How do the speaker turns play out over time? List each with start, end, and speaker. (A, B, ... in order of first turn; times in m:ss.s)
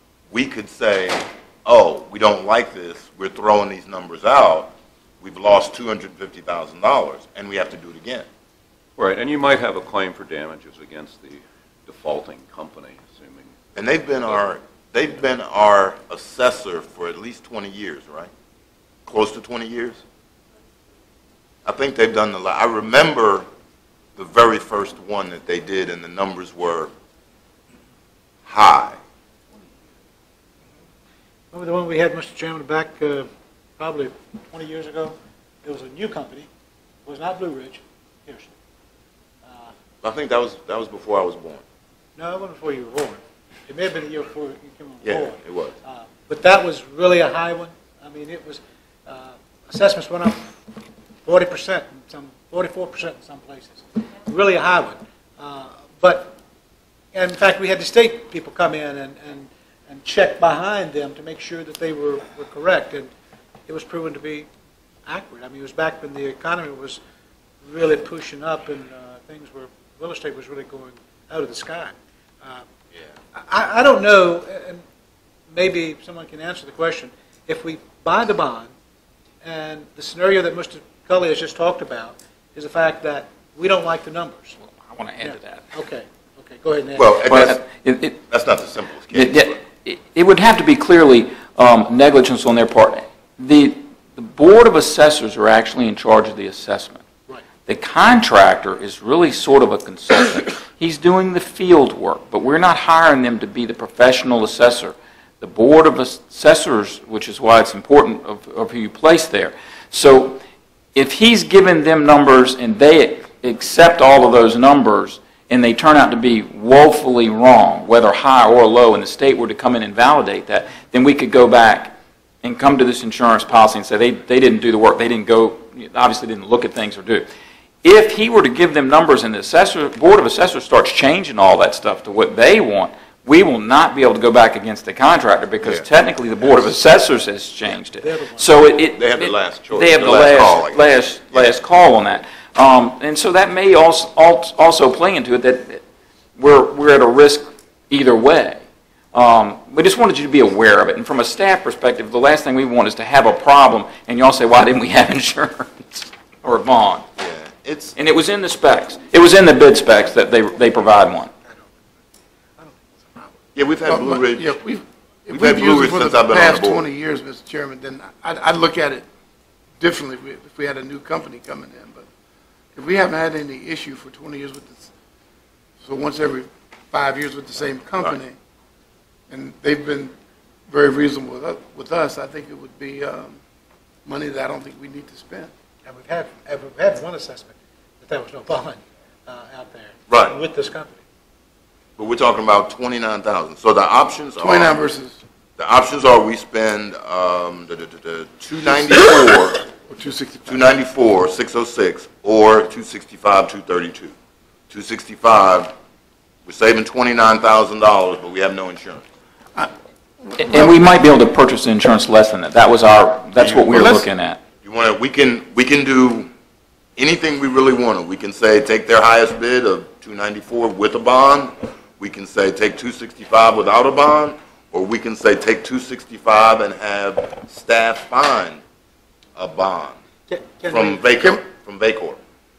0:00.3-0:08.3 A
0:09.0-0:13.6 B
0:13.8-0:18.3 A
0:19.1-0:20.0 A
0:21.6-0:23.5 A
0:24.2-0:26.9 A
0:28.5-0:29.0 A
0:31.5-0:36.5 C
0:37.0-0:38.5 C
0:39.5-0:39.7 C
0:40.0-0:41.6 A
0:42.2-0:50.5 C
0:45.0-0:45.8 A
0:51.2-0:56.3 C
0:57.1-1:03.1 C
1:03.7-1:04.5 C
1:05.1-1:07.0 C
1:07.6-1:12.7 C
1:13.4-1:14.8 C
1:15.5-1:18.7 C
1:19.4-1:24.6 C
1:24.8-1:25.7 D
1:25.2-1:27.1 C
1:27.0-1:27.6 A
1:27.3-1:28.2 D
1:28.3-1:29.6 A
1:29.1-1:37.0 D
1:37.7-1:50.4 D
1:51.0-2:07.2 D
2:07.8-2:25.8 D
2:18.0-2:18.7 C
2:19.0-2:21.5 A
2:26.4-2:28.6 D
2:29.1-2:37.0 D
2:37.2-2:38.0 A
2:38.0-2:41.3 D
2:42.6-2:43.3 C
2:43.6-2:44.6 A
2:43.9-2:49.0 E
2:45.3-2:46.9 A
2:49.8-2:52.0 E
2:52.8-2:54.9 E
2:55.8-2:58.4 E
2:59.3-3:00.1 E
3:00.7-3:03.4 E
3:04.0-3:05.5 E
3:05.9-3:11.0 C
3:10.1-3:10.4 A
3:12.0-3:14.8 A
3:14.4-3:15.2 E
3:15.6-3:19.6 A
3:19.9-3:20.7 E
3:20.4-3:24.1 A
3:24.7-3:25.7 A
3:26.5-3:29.1 A
3:30.4-3:34.4 D
3:33.4-3:34.1 A
3:34.6-3:36.3 A
3:37.0-3:48.6 A
3:49.4-3:50.0 A
3:50.3-3:51.1 C
3:50.7-3:52.2 A